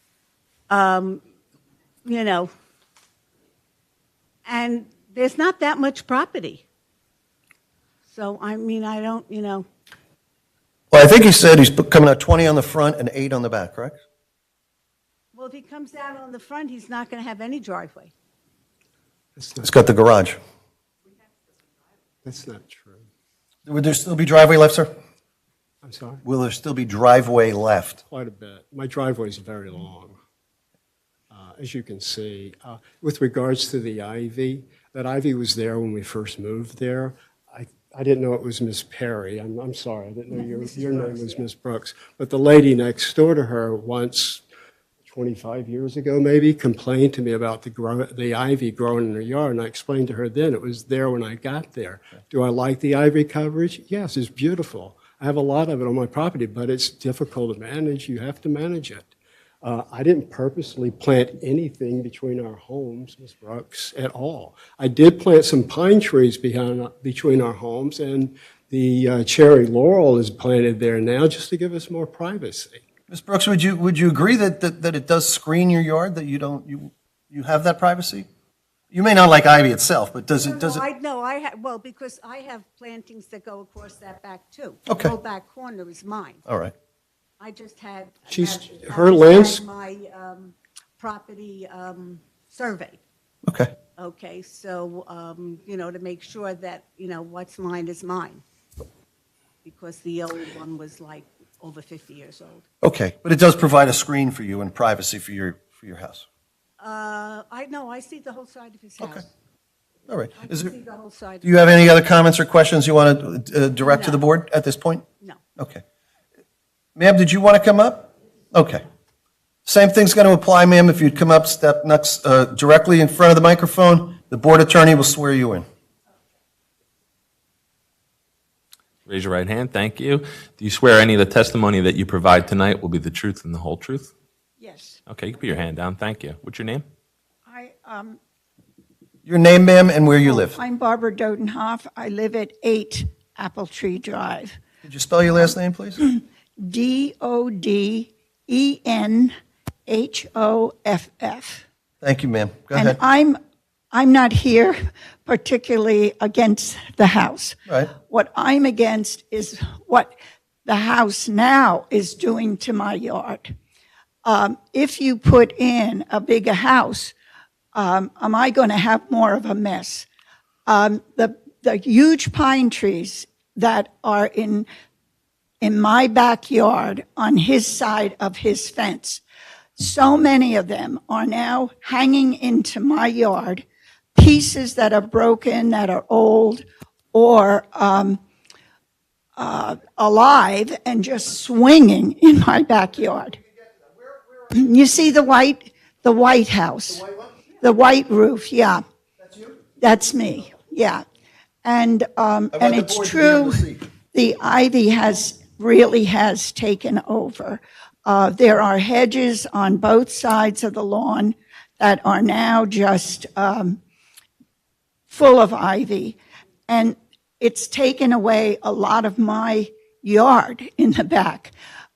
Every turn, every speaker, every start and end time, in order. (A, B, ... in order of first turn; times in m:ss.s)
0:00.7-0:01.2 A
0:02.0-0:02.5 A
0:04.5-0:06.6 A
0:08.1-0:09.7 A
0:10.9-0:14.0 B
0:15.3-0:18.1 A
0:19.4-0:19.7 C
0:19.6-0:20.4 B
0:22.2-0:23.0 C
0:23.7-0:24.9 B
0:25.8-0:26.2 C
0:26.2-0:28.0 B
0:28.0-0:30.2 C
0:31.3-0:44.4 C
0:45.0-0:59.1 C
0:59.6-1:12.8 C
1:13.1-1:18.3 B
1:18.9-1:20.8 B
1:20.4-1:26.4 A
1:24.9-1:25.1 B
1:26.5-1:26.7 B
1:27.4-1:33.0 A
1:28.3-1:29.6 C
1:33.5-1:33.7 B
1:34.0-1:38.4 A
1:39.6-1:42.7 A
1:42.8-1:46.2 B
1:46.8-1:49.3 A
1:50.1-1:50.7 B
1:50.4-1:51.9 A
1:51.4-1:55.1 B
1:53.8-1:54.2 A
1:55.6-1:55.8 B
1:57.0-1:58.8 B
1:59.7-2:05.6 B
2:09.1-2:14.1 D
2:14.6-2:15.0 E
2:15.1-2:16.8 D
2:17.5-2:18.2 E
2:19.3-2:20.6 B
2:20.2-2:24.6 E
2:24.8-2:26.0 B
2:26.0-2:29.3 E
2:29.9-2:31.6 E
2:32.0-2:33.0 B
2:32.7-2:33.4 E
2:33.9-2:40.2 E
2:40.7-2:43.5 E
2:44.2-2:47.1 E
2:47.7-2:50.1 E
2:50.7-2:54.7 E
2:55.6-2:59.2 E
2:59.8-3:03.6 E
3:04.2-3:08.2 E
3:09.4-3:13.4 E
3:14.5-3:17.1 E
3:17.0-3:17.2 B
3:17.6-3:18.8 E
3:19.2-3:19.5 B
3:19.8-3:21.0 E
3:21.6-3:33.8 E
3:22.5-3:23.8 B
3:35.1-3:41.5 E